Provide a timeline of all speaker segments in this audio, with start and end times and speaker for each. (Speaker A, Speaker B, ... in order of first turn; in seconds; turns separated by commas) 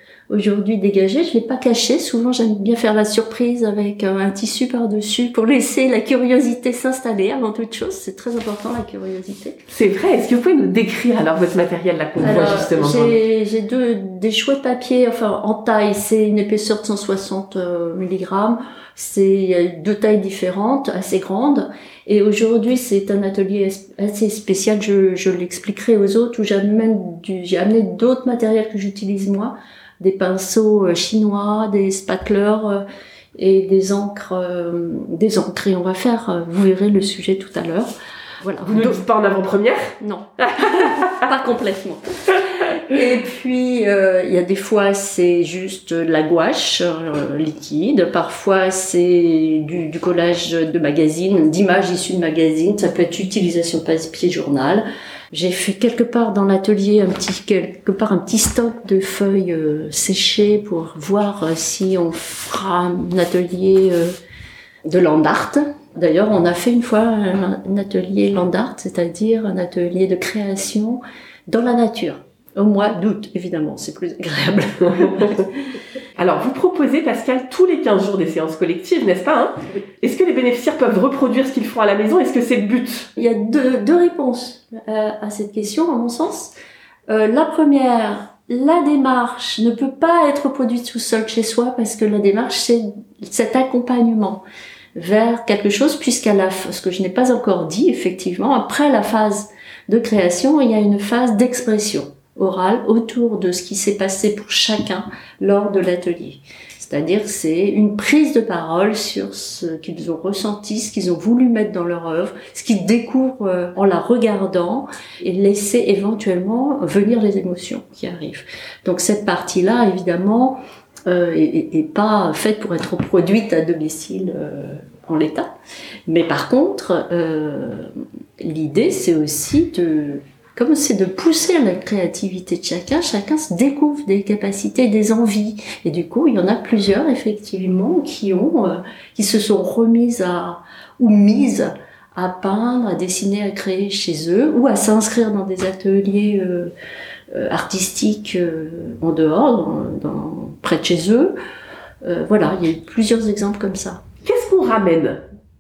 Speaker A: 0.3-9.6, Speaker B: 9.7-13.2, Speaker A: 12.2-39.0, Speaker B: 38.6-40.9, Speaker A: 40.0-64.2, Speaker A: 64.9-75.3, Speaker B: 75.0-75.4, Speaker B: 76.2-83.1, Speaker A: 83.2-86.5, Speaker A: 87.1-94.5, Speaker A: 95.0-125.5, Speaker A: 126.1-146.7, Speaker A: 147.3-151.4, Speaker A: 152.0-154.0, Speaker B: 154.2-155.2